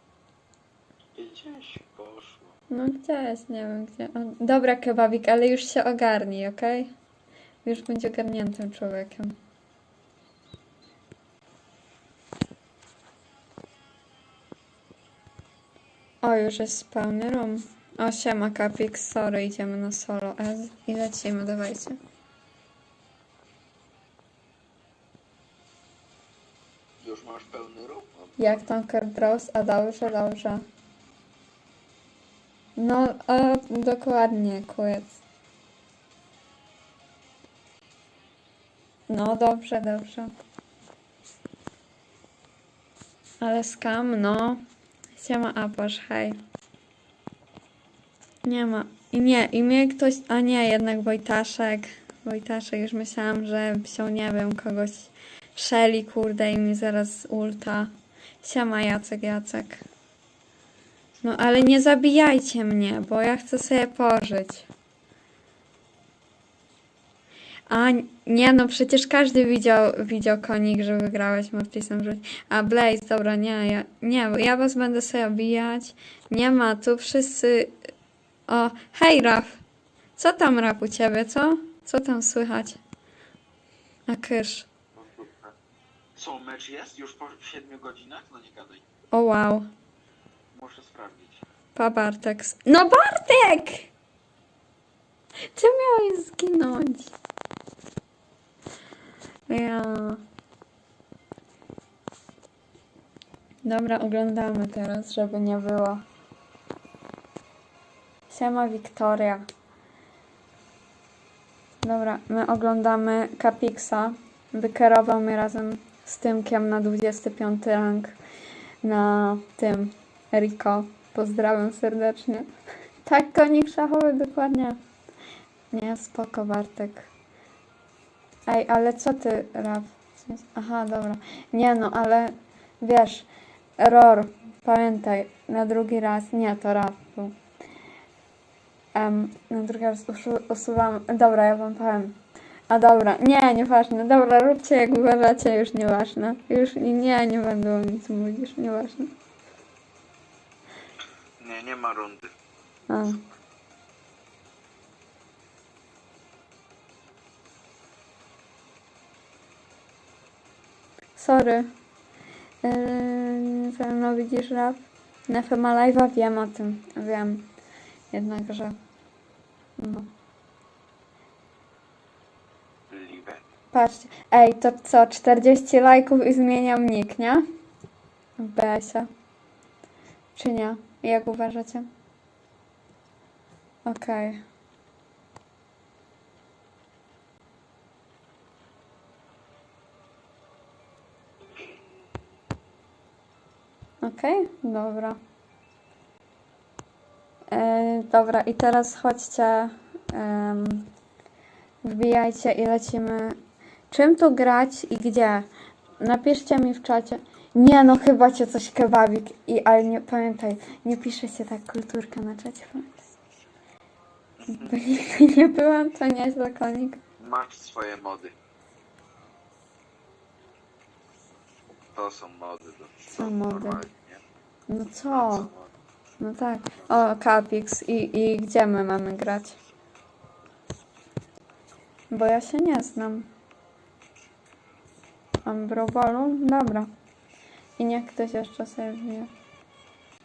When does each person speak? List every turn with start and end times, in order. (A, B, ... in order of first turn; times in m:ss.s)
0:01.1-0:02.6 A
0:02.7-0:06.9 B
0:07.6-0:09.4 B
0:16.2-0:22.0 B
0:27.0-0:28.6 A
0:28.4-0:30.6 B
0:32.8-0:35.2 B
0:39.1-0:40.3 B
0:43.4-0:44.6 B
0:45.2-0:46.4 B
0:48.4-0:59.8 B
1:01.2-1:04.7 B
1:07.7-1:17.8 B
1:18.5-1:19.6 B
1:20.2-1:22.8 B
1:24.1-1:24.7 B
1:24.9-1:25.6 A
1:26.2-1:28.8 A
1:29.1-1:29.7 B
1:30.5-1:31.4 A
1:31.8-1:33.9 B
1:35.6-1:37.1 B
1:39.5-1:40.2 B
1:43.6-1:46.0 B
1:48.3-1:49.4 B
1:51.8-1:58.2 B
1:58.8-2:02.5 B
2:03.0-2:04.8 B
2:05.7-2:07.1 B
2:08.4-2:13.2 B
2:13.8-2:17.3 B
2:18.9-2:22.2 B
2:22.7-2:29.1 B
2:31.4-2:32.3 A
2:32.9-2:33.2 B
2:41.2-2:41.7 B
2:42.6-2:47.5 B
2:48.1-2:48.8 B
2:49.8-2:50.1 B
2:52.9-2:53.4 A
2:53.7-2:57.4 B
2:58.4-2:59.1 B
3:00.4-3:01.9 B
3:03.8-3:04.4 B
3:14.0-3:15.2 B
3:17.5-3:20.9 B
3:21.8-3:23.4 B
3:23.9-3:25.5 B
3:26.0-3:33.0 B
3:34.4-3:34.8 A
3:34.5-3:37.0 B
3:37.2-3:38.3 A
3:41.9-3:44.2 A
3:43.1-3:43.8 B
3:44.7-3:45.5 B
3:45.1-3:45.7 A
3:46.2-3:49.6 B
3:46.8-3:47.1 A
3:52.1-3:53.3 B
3:55.4-3:56.9 B
3:57.8-3:59.3 B